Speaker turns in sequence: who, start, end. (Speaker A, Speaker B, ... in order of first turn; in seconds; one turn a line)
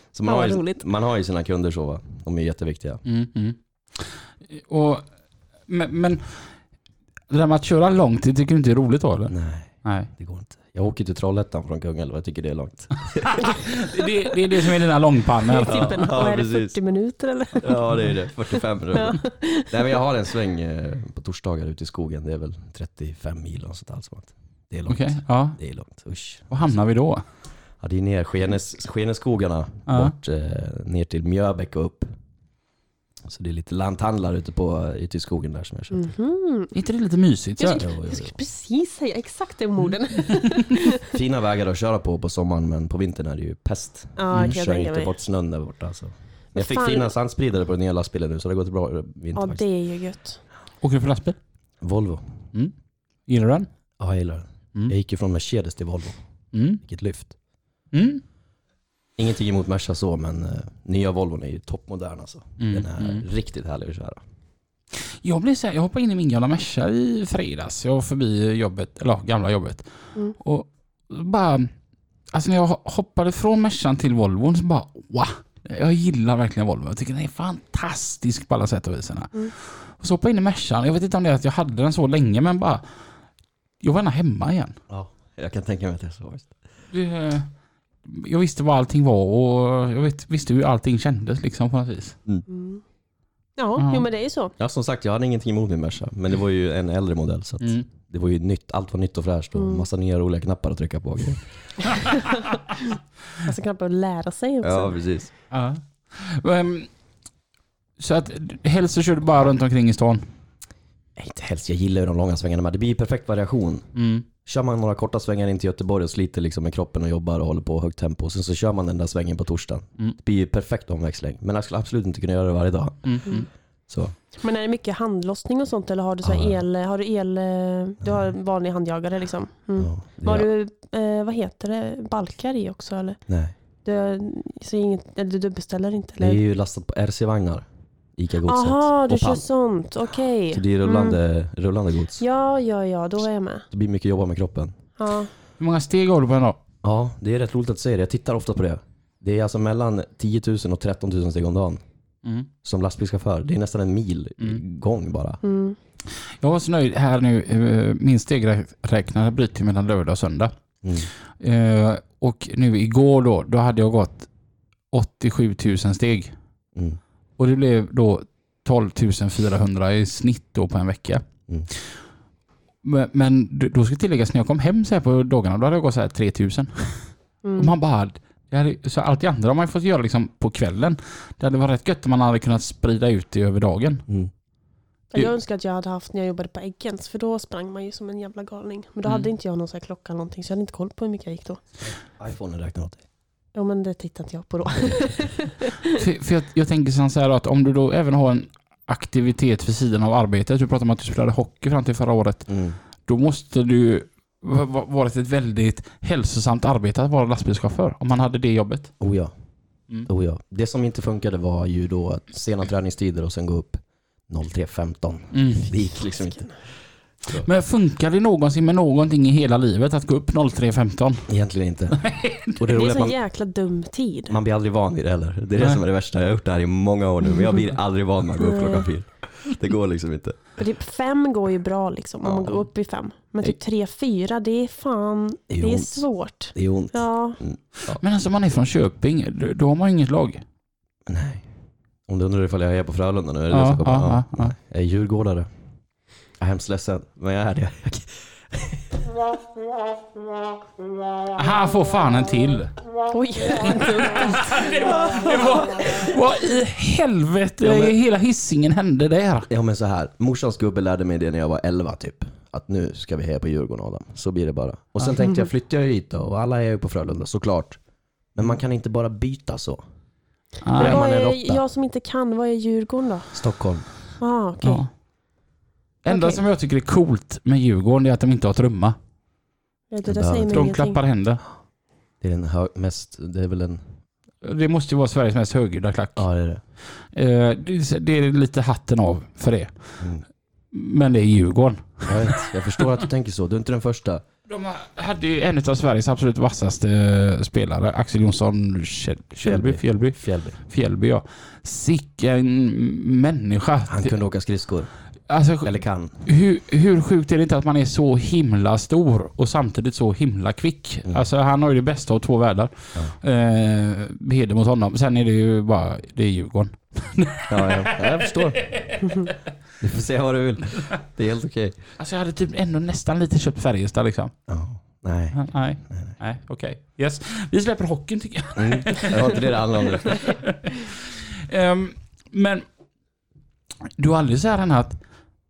Speaker A: 0.1-3.0
Speaker B: 0.2-0.8
Speaker C: 3.0-5.0
Speaker C: 5.7-6.4
Speaker C: 7.3-9.3
Speaker A: 9.3-13.6
Speaker C: 13.4-16.1
Speaker B: 13.4-14.1
Speaker B: 15.4-18.0
Speaker A: 15.7-16.7
Speaker A: 17.6-26.6
Speaker B: 18.9-19.8
Speaker C: 24.9-25.6
Speaker C: 26.5-27.2
Speaker A: 27.8-32.1
Speaker C: 29.9-30.1
Speaker A: 33.2-36.1
Speaker B: 35.9-36.7
Speaker C: 36.7-37.8
Speaker B: 37.6-41.0
Speaker A: 37.8-38.4
Speaker A: 41.0-49.6
Speaker B: 44.2-45.1
Speaker B: 46.5-47.1
Speaker B: 49.3-50.4
Speaker C: 50.8-51.4
Speaker A: 51.8-52.3
Speaker C: 53.3-53.7
Speaker A: 54.0-56.2
Speaker C: 56.5-56.8
Speaker A: 56.8-57.3
Speaker C: 57.9-58.2
Speaker A: 59.2-64.2
Speaker C: 62.6-63.2
Speaker C: 64.9-71.7
Speaker C: 72.3-82.8
Speaker C: 83.8-84.8
Speaker A: 84.9-86.5
Speaker C: 86.9-87.5
Speaker C: 88.0-92.2
Speaker B: 92.5-92.8
Speaker B: 93.6-94.5
Speaker C: 93.8-94.0
Speaker A: 94.6-101.4
Speaker B: 99.6-99.8
Speaker B: 102.0-102.4
Speaker B: 103.4-105.0
Speaker A: 104.6-105.3
Speaker C: 105.5-106.9
Speaker C: 108.0-110.2
Speaker A: 111.2-113.9
Speaker C: 113.9-114.2
Speaker A: 114.4-123.4
Speaker C: 123.0-123.5
Speaker A: 123.9-124.1
Speaker B: 124.4-133.2
Speaker A: 126.2-126.6
Speaker A: 129.8-130.5
Speaker A: 133.3-133.5
Speaker B: 133.8-136.4
Speaker A: 136.2-139.4
Speaker B: 138.4-141.2
Speaker A: 140.5-142.2
Speaker B: 142.2-143.7
Speaker A: 143.7-144.8
Speaker B: 145.0-145.3
Speaker C: 145.6-146.6
Speaker A: 146.8-151.8
Speaker C: 152.2-152.5
Speaker A: 152.6-155.4
Speaker B: 155.4-155.8
Speaker C: 156.4-160.5
Speaker A: 160.8-161.1
Speaker C: 161.4-164.3
Speaker C: 164.9-166.3
Speaker A: 166.7-167.0
Speaker C: 167.4-171.2
Speaker C: 172.8-184.0
Speaker B: 177.4-177.7
Speaker B: 185.1-191.6
Speaker A: 192.1-193.0
Speaker B: 193.5-196.0
Speaker C: 195.9-202.5
Speaker A: 202.5-202.8
Speaker C: 203.1-208.9
Speaker A: 209.0-209.3
Speaker A: 210.1-216.5
Speaker C: 215.3-215.7
Speaker B: 215.9-216.5
Speaker C: 217.3-221.3
Speaker A: 221.3-222.0
Speaker C: 221.9-222.6
Speaker A: 222.6-223.2
Speaker B: 222.7-224.4
Speaker A: 224.3-230.4
Speaker B: 228.4-228.9
Speaker B: 230.6-237.4
Speaker A: 232.2-232.6
Speaker A: 235.5-238.0
Speaker C: 237.9-240.4
Speaker A: 241.1-241.4
Speaker A: 242.1-245.5
Speaker C: 243.5-244.5
Speaker A: 246.4-249.0
Speaker C: 251.3-252.7
Speaker B: 253.1-255.5
Speaker C: 253.6-259.5
Speaker A: 257.6-257.9
Speaker A: 259.5-267.8
Speaker A: 268.3-269.8
Speaker C: 270.6-271.0
Speaker A: 270.8-271.6
Speaker B: 270.8-273.3
Speaker A: 273.3-273.8
Speaker B: 274.2-274.8
Speaker C: 274.6-274.9
Speaker C: 276.0-278.9
Speaker B: 276.1-276.4
Speaker B: 279.9-281.0
Speaker A: 280.1-280.7
Speaker C: 280.5-281.4
Speaker A: 282.2-283.8
Speaker C: 284.4-286.2
Speaker A: 286.2-286.6
Speaker C: 287.0-290.1
Speaker A: 290.0-290.2
Speaker C: 290.7-292.8
Speaker A: 292.1-294.2
Speaker C: 294.5-304.1
Speaker A: 299.4-300.6
Speaker A: 303.9-304.9
Speaker C: 305.3-319.3
Speaker A: 305.6-306.1
Speaker A: 317.5-318.6
Speaker A: 319.8-321.8
Speaker C: 322.0-324.3
Speaker A: 324.5-326.1
Speaker C: 325.3-332.6
Speaker A: 328.6-330.2
Speaker C: 333.9-335.0